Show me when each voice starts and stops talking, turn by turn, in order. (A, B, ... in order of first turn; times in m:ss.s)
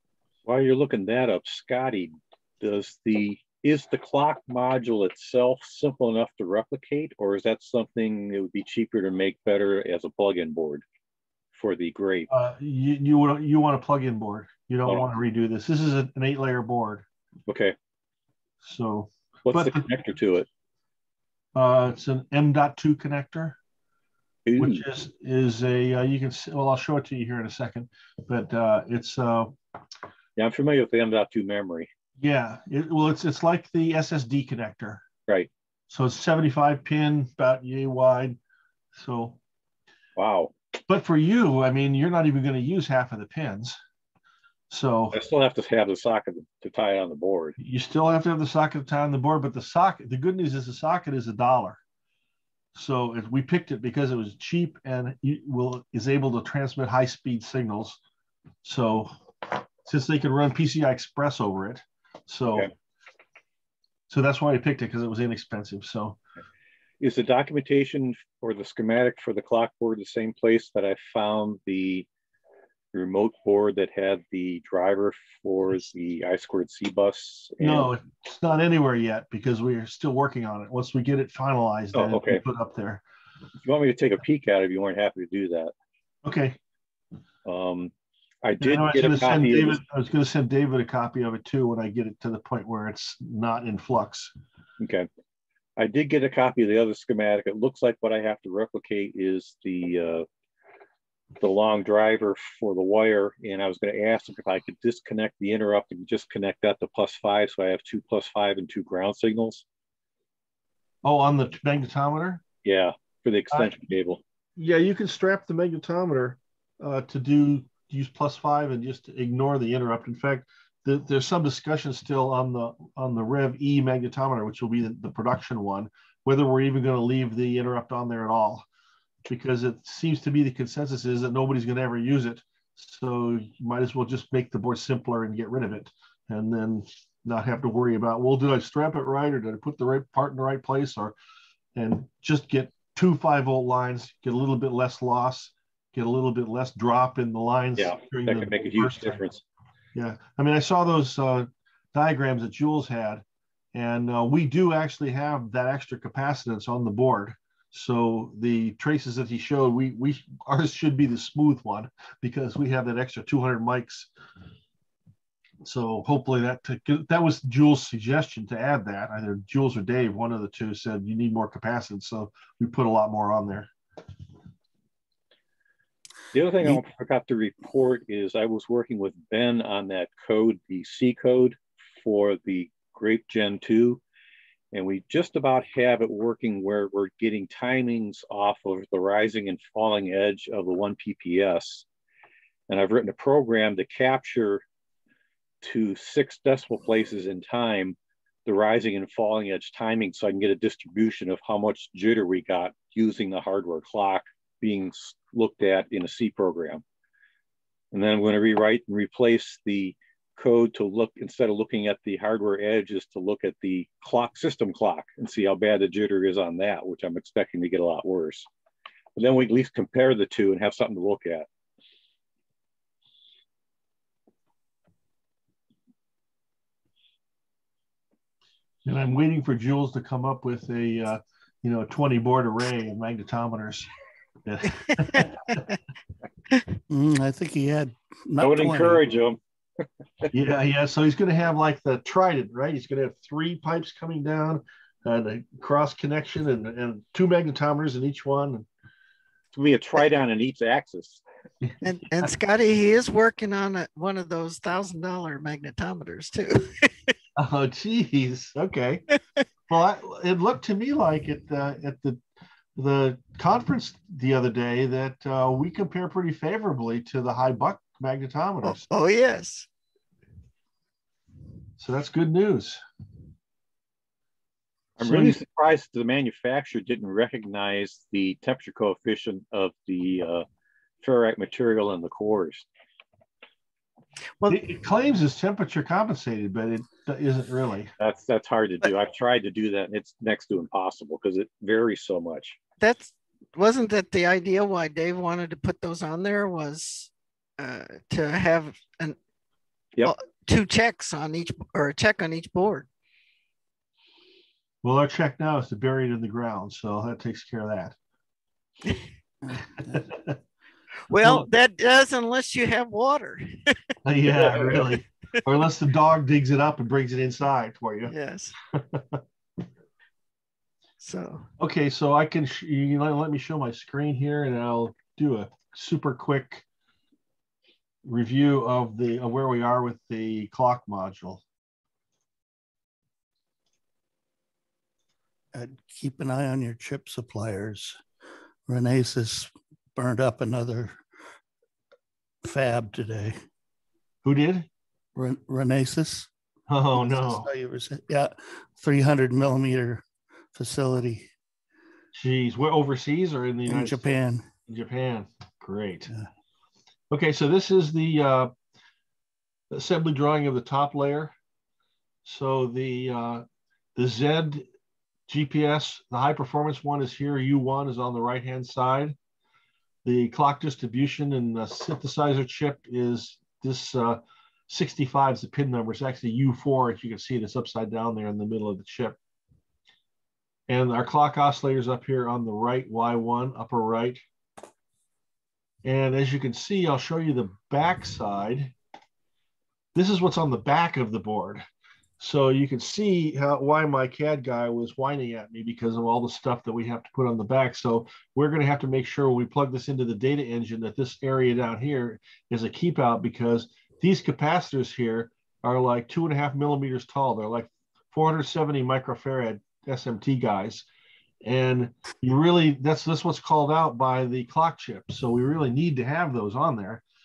0:00.4-0:10.8 A
0:11.5-0:12.3 A
0:12.3-0:17.0 B
0:17.5-0:17.7 A
0:18.6-0:19.8 B
0:19.5-0:20.5 A
0:21.6-0:23.6 B
0:24.5-0:24.8 A
0:24.6-0:29.6 B
0:30.4-0:31.9 A
0:32.2-0:35.0 B
0:35.9-0:38.4 B
0:39.0-0:39.4 B
0:40.2-0:40.5 A
0:40.9-0:43.8 B
0:44.7-0:45.2 B
0:45.1-0:47.6 A
0:47.6-0:51.8 B
0:52.8-0:58.0 B
0:58.6-0:59.1 B
0:59.8-1:02.7 B
1:04.1-1:06.2 B
1:07.0-1:12.1 A
1:12.9-1:17.9 A
1:17.6-1:23.0 B
1:21.9-1:22.4 A
1:23.6-1:25.7 A
1:26.2-1:26.6 B
1:27.4-1:27.9 A
1:28.4-1:29.8 A
1:28.6-1:34.3 B
1:34.8-1:35.1 A
1:35.8-1:40.2 A
1:41.4-1:49.6 A
1:51.0-1:52.4 B
1:52.6-1:54.2 A
1:54.6-2:08.6 B
2:09.3-2:21.1 B
2:21.8-2:29.2 B
2:27.8-2:29.4 A
2:30.0-2:44.1 B
2:45.6-2:53.7 B
2:56.3-3:04.0 A
3:04.7-3:11.8 A
3:12.7-3:14.6 A
3:15.6-3:26.8 A
3:27.9-3:38.5 A
3:39.2-3:41.5 A
3:48.8-3:53.9 B
3:54.4-3:55.6 B
3:56.9-3:59.0 C
3:58.4-3:59.4 A
4:00.3-4:08.7 B
4:09.5-4:11.2 A
4:11.8-4:16.9 D
4:17.4-4:19.0 B
4:19.7-4:22.2 B
4:22.8-4:28.8 B
4:28.6-4:29.7 D
4:31.8-4:32.8 B
4:35.0-4:40.4 A
4:35.0-4:35.4 B
4:41.0-4:42.7 A
4:44.5-4:47.9 B
4:48.0-4:52.6 A
4:52.8-4:59.2 D
5:00.0-5:02.9 D
5:04.8-5:08.0 B
5:11.1-5:13.7 D
5:14.0-5:18.1 B
5:14.4-5:14.9 D
5:18.1-5:18.6 D
5:18.7-5:19.2 B
5:21.0-5:21.5 D
5:21.6-5:26.6 B
5:28.0-5:31.4 B
5:35.5-5:38.0 C
5:38.7-5:41.0 C
5:42.4-5:43.4 C
5:44.2-5:44.7 B
5:45.2-5:46.3 C
5:46.7-5:47.5 B
5:47.0-5:51.3 C
5:52.1-5:56.1 B
5:53.7-5:54.5 C
5:57.1-5:58.5 B
5:59.7-6:01.3 B
6:02.2-6:03.4 B
6:04.0-6:04.6 B
6:05.3-6:09.2 B
6:10.0-6:19.2 B
6:20.7-6:24.2 B
6:25.8-6:28.7 B
6:30.0-6:31.6 B
6:32.2-6:50.9 B
6:51.4-6:57.0 B